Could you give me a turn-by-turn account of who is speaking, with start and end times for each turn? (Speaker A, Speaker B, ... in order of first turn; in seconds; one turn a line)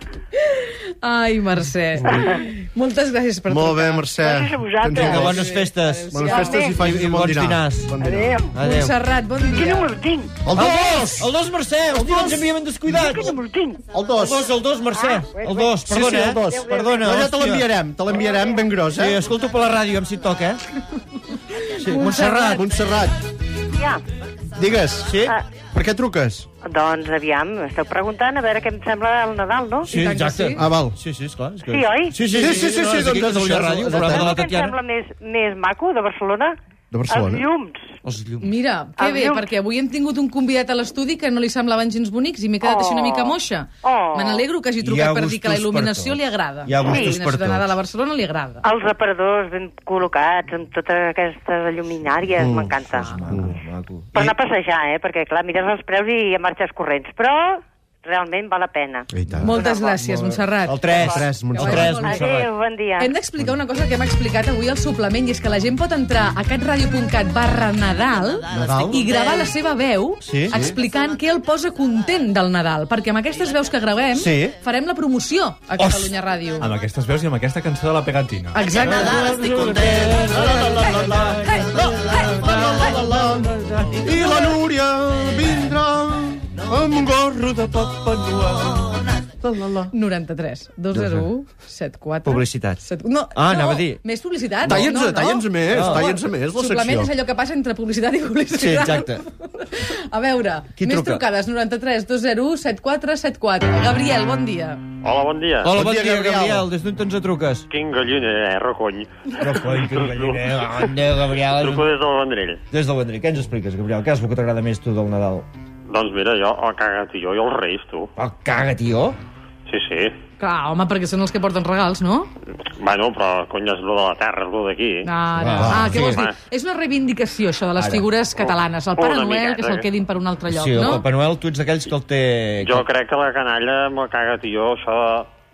Speaker A: 0.5-4.0
Speaker B: 3.5-5.4
Speaker C: 4.2-5.5
Speaker D: 4.9-7.9
Speaker A: 5.0-6.5
Speaker B: 6.1-8.3
Speaker C: 6.2-6.8
Speaker C: 8.0-8.5
Speaker D: 8.5-8.9
Speaker A: 8.6-9.9
Speaker C: 9.4-10.4
Speaker B: 10.4-11.3
Speaker D: 10.5-13.3
Speaker B: 12.0-12.4
Speaker C: 12.9-13.8
Speaker B: 13.9-14.5
Speaker D: 14.2-17.7
Speaker C: 15.2-15.7
Speaker B: 15.8-19.2
Speaker D: 18.9-20.6
Speaker D: 21.6-22.7
Speaker B: 21.9-23.1
Speaker E: 23.8-24.0
Speaker B: 24.6-25.2
Speaker D: 25.1-25.4
Speaker B: 25.7-26.5
Speaker E: 26.6-29.9
Speaker A: 29.9-30.6
Speaker D: 29.9-34.8
Speaker B: 30.6-31.0
Speaker E: 31.7-32.2
Speaker B: 32.3-34.4
Speaker E: 33.9-36.6
Speaker B: 36.9-37.5
Speaker E: 37.1-37.9
Speaker D: 38.0-38.5
Speaker A: 38.4-48.6
Speaker E: 39.0-39.4
Speaker E: 42.6-44.5
Speaker D: 44.8-47.8
Speaker E: 46.9-47.2
Speaker E: 48.6-53.1
Speaker D: 52.0-54.4
Speaker B: 52.4-52.8
Speaker B: 53.3-53.6
Speaker E: 54.1-60.0
Speaker B: 59.1-59.6
Speaker A: 59.4-62.4
Speaker D: 60.0-62.5
Speaker B: 61.0-62.0
Speaker E: 61.4-63.1
Speaker A: 63.0-76.7
Speaker B: 68.5-69.0
Speaker D: 68.6-69.0
Speaker D: 70.2-70.5
Speaker B: 70.5-70.8
Speaker D: 74.1-74.5
Speaker D: 75.8-76.1
Speaker F: 76.6-78.7
Speaker A: 78.5-79.3
Speaker D: 78.8-84.5
Speaker B: 79.8-83.5
Speaker B: 84.0-89.9
Speaker A: 89.9-104.8
Speaker D: 92.2-92.8
Speaker D: 93.3-94.0
Speaker B: 94.6-97.1
Speaker D: 95.7-96.1
Speaker D: 98.5-99.2
Speaker D: 100.8-101.2
Speaker G: 105.0-105.8
Speaker D: 105.6-107.7
Speaker B: 105.7-106.7
Speaker G: 107.7-110.8
Speaker D: 109.4-111.9
Speaker G: 111.4-112.6
Speaker D: 112.7-115.5
Speaker G: 115.9-118.1
Speaker D: 118.2-119.2
Speaker G: 119.7-120.1
Speaker A: 120.4-122.3
Speaker G: 122.8-125.1
Speaker A: 125.0-131.1
Speaker D: 125.3-126.2
Speaker B: 125.6-126.0
Speaker G: 125.7-126.4
Speaker D: 127.8-128.1
Speaker G: 128.4-129.9
Speaker D: 130.5-132.9
Speaker G: 132.6-135.3